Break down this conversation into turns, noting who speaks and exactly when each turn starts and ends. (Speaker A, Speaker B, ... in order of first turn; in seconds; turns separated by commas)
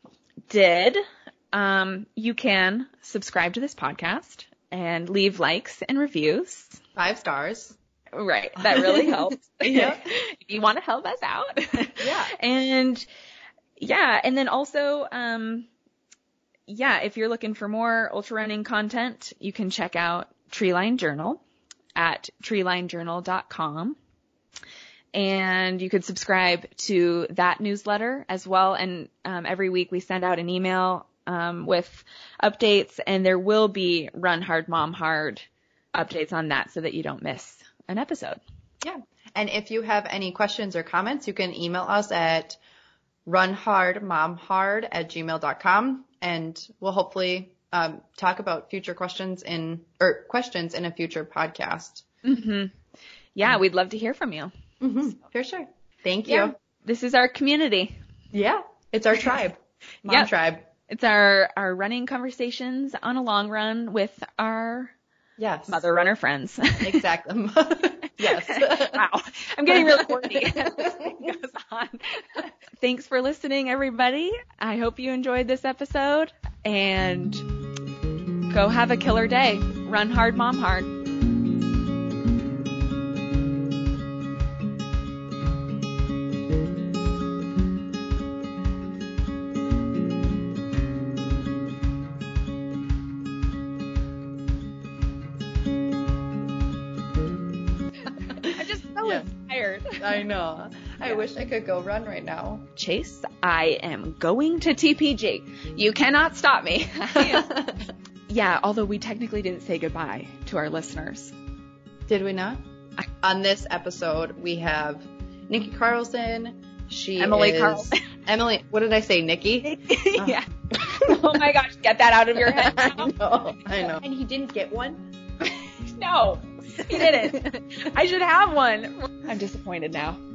Speaker A: 0.5-6.8, Speaker B: 7.0-7.8, Speaker A: 8.1-13.1, Speaker B: 8.6-10.0, Speaker B: 12.0-12.3, Speaker A: 13.8-15.7, Speaker A: 16.7-21.4, Speaker A: 21.9-23.9, Speaker A: 25.1-38.4, Speaker B: 38.8-42.6, Speaker B: 43.2-52.0, Speaker A: 52.2-52.7, Speaker A: 53.3-54.5, Speaker B: 54.8-56.5, Speaker A: 56.2-57.9, Speaker B: 58.3-60.7, Speaker A: 60.9-64.9, Speaker B: 65.4-65.8, Speaker A: 65.7-67.0, Speaker B: 66.8-69.1, Speaker A: 68.2-77.4, Speaker B: 69.7-71.0, Speaker A: 78.5-80.9, Speaker B: 98.3-99.3, Speaker A: 98.4-100.2, Speaker B: 100.0-102.7, Speaker A: 102.8-107.5, Speaker B: 107.1-107.9, Speaker A: 108.3-111.3, Speaker B: 112.1-112.6, Speaker B: 113.2-121.4, Speaker A: 117.2-118.0, Speaker A: 119.6-124.0, Speaker B: 122.3-125.0, Speaker A: 125.4-130.2, Speaker B: 126.9-127.6